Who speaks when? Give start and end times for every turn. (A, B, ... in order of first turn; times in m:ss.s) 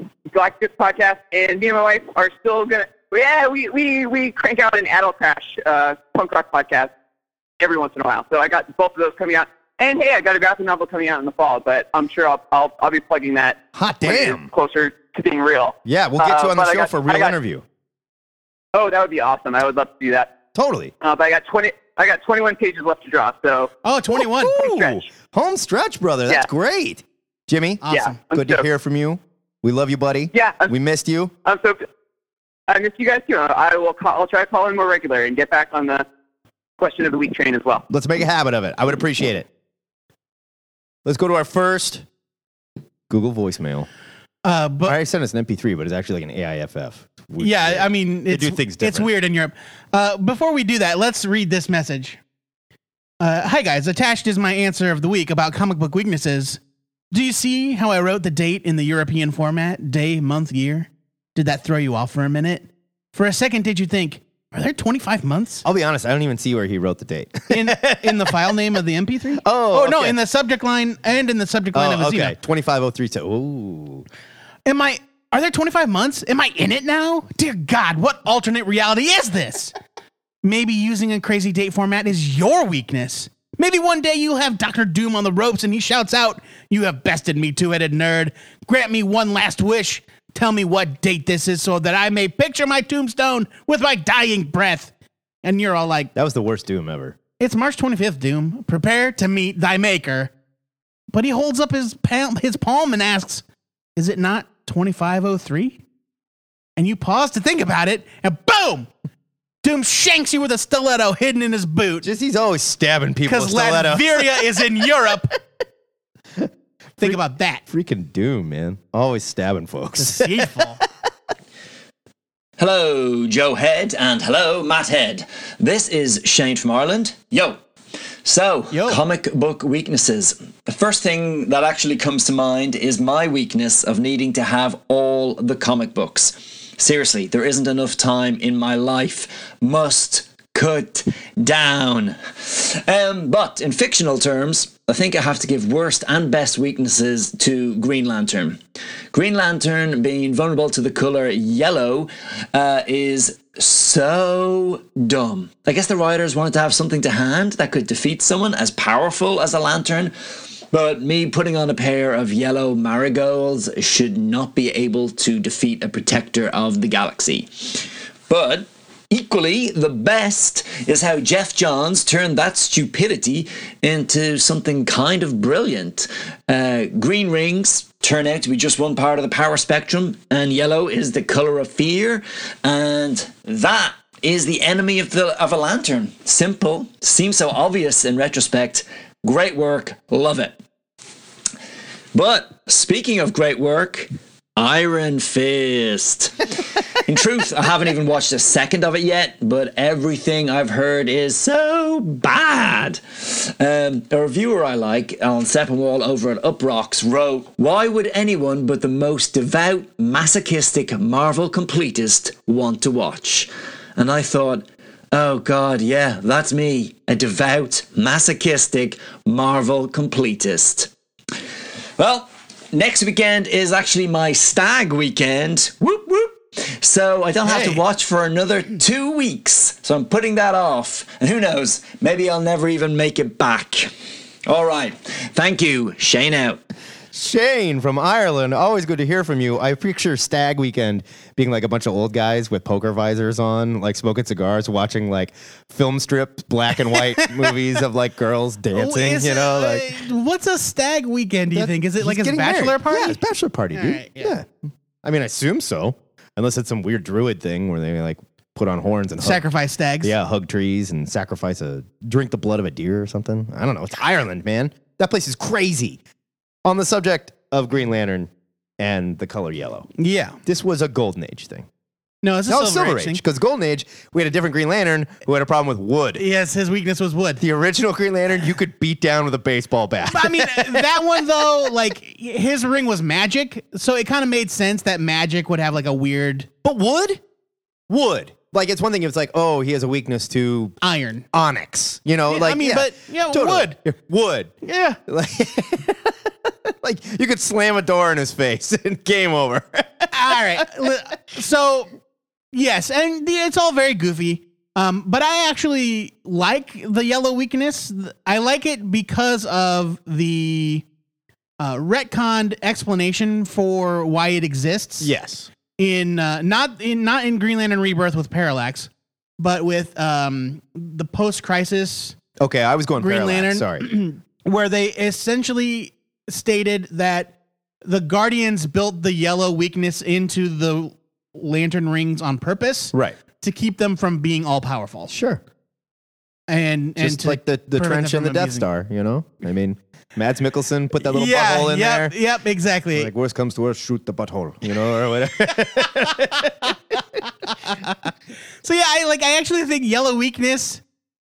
0:00.3-0:06.9 A
0:07.6-0:17.3 A
0:13.8-0:14.5 B
0:15.8-0:17.6 B
0:18.7-0:20.3 A
0:20.5-0:20.9 B
0:21.0-0:23.7 A
0:23.8-0:24.6 C
0:24.1-0:31.3 B
0:24.6-0:25.0 A
0:27.8-0:28.2 C
0:27.9-0:28.6 A
0:30.3-0:30.7 A
0:31.4-0:31.8 A
0:32.7-0:36.0 A
0:36.8-0:37.8 A
0:37.9-0:39.5 B
0:41.0-0:42.0 B
0:43.1-0:43.9 B
0:44.4-0:45.0 C
0:44.8-0:49.1 B
0:47.4-0:52.2 C
0:53.2-0:56.6 C
0:57.1-1:05.6 C
1:05.6-1:08.5 B
1:07.5-1:12.4 C
1:09.4-1:10.2 B
1:11.7-1:14.0 B
1:14.6-1:19.7 C
1:20.4-1:34.9 C
1:35.4-1:36.1 C
1:36.1-1:37.2 B
1:37.4-1:40.3 C
1:41.1-1:43.4 C
1:44.0-1:45.8 C
1:46.8-1:48.9 C
1:49.6-1:52.1 C
1:52.0-1:54.4 B
1:53.3-1:55.3 C
1:56.4-2:00.6 B
1:57.0-1:57.6 C
2:00.0-2:00.8 C
2:02.6-2:07.6 D
2:08.2-2:28.6 D
2:08.7-2:09.0 C
2:29.1-2:40.1 D
2:40.7-3:10.5 D
3:12.1-3:40.9 D
3:42.0-3:53.9 D
3:54.5-3:56.6 D
3:57.1-4:10.0 B
4:06.9-4:07.5 C
4:08.7-4:13.2 C
4:11.5-4:14.5 B
4:13.7-4:14.3 C
4:15.0-4:19.4 B
4:19.2-4:20.1 C
4:20.0-4:26.0 B
4:26.6-4:29.9 B
4:30.0-4:30.4 C
4:30.4-4:31.6 B
4:32.2-4:33.2 C
4:32.5-4:36.2 B
4:36.2-4:37.4 C
4:37.4-4:41.2 B
4:40.1-4:46.5 C
4:46.6-4:47.2 B
4:47.9-4:50.8 B
4:50.8-4:51.2 C
4:51.3-4:54.5 B
4:52.3-4:53.8 C
4:54.6-4:55.0 C
4:55.1-4:56.1 B
4:56.7-5:00.6 B
5:00.1-5:01.9 C
5:02.5-5:10.8 C
5:11.6-5:15.1 C
5:15.0-5:15.5 B
5:15.8-5:22.2 C
5:22.4-5:23.9 B
5:23.0-5:35.1 C
5:32.9-5:33.2 B
5:35.1-5:35.4 B
5:36.5-5:38.6 C
5:37.0-5:42.1 B
5:41.0-5:43.1 C
5:42.9-5:46.7 B
5:48.6-5:50.8 C